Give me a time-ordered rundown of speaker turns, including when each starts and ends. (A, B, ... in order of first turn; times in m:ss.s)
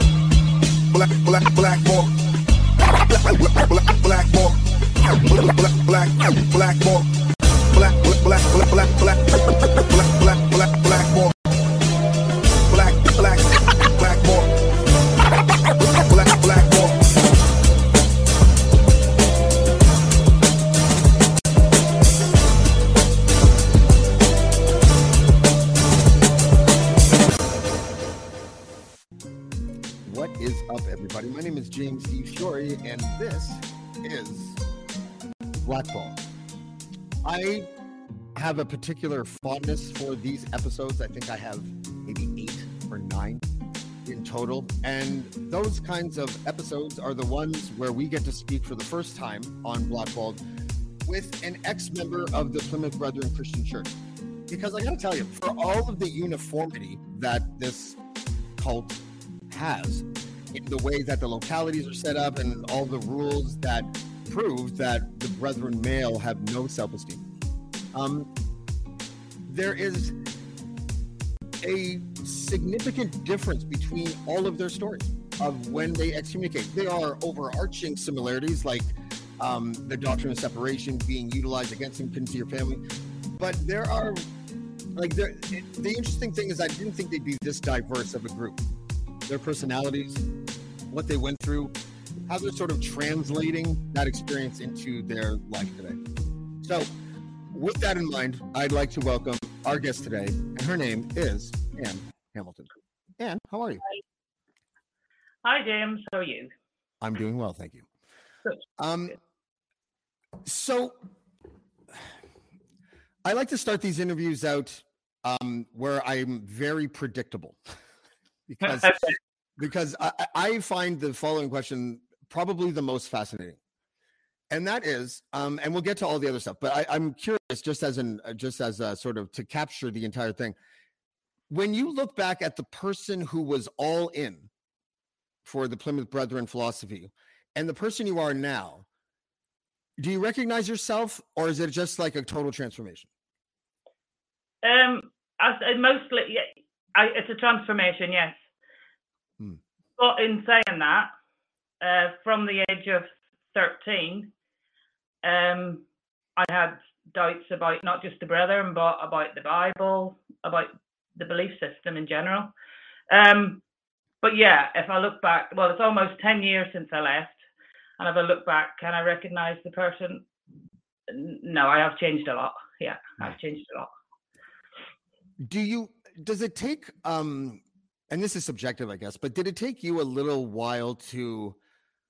0:00.9-0:07.1 A
0:07.7-0:11.4 A
0:12.7-0:14.5 A
0:15.3-0:17.0 A
0:30.0-0:34.6 B
0:35.6-0:36.2 B
0:37.2-0:37.7 B
0:38.3-0:43.4 B
0:44.0-0:50.4 B
0:51.0-0:53.9 B
0:54.5-0:58.0 B
0:58.6-1:07.2 B
1:07.9-1:08.3 B
1:09.4-1:10.2 B
1:11.6-1:22.8 B
1:23.4-1:24.2 B
1:24.9-1:28.6 B
1:29.3-1:30.2 B
1:30.9-1:31.7 B
1:32.3-1:36.0 B
1:36.6-1:36.9 B
1:37.5-1:43.8 B
1:45.4-1:46.5 C
1:47.0-1:47.9 B
1:48.8-1:49.2 B
1:50.4-1:51.0 B
1:53.2-1:57.6 B
1:58.5-1:59.0 B
1:58.6-1:59.2 C
1:59.6-2:03.6 B
2:04.5-2:10.6 B
2:11.5-2:14.5 B
2:15.4-2:18.8 B
2:20.0-2:23.1 B
2:24.6-2:28.4 C
2:30.0-2:31.1 C
2:31.8-2:34.3 C
2:35.2-2:35.8 C
2:36.4-2:42.5 C
2:43.1-2:43.6 C
2:44.2-2:47.4 C
2:48.0-2:50.2 C
2:51.1-2:53.9 C
2:55.4-3:01.6 B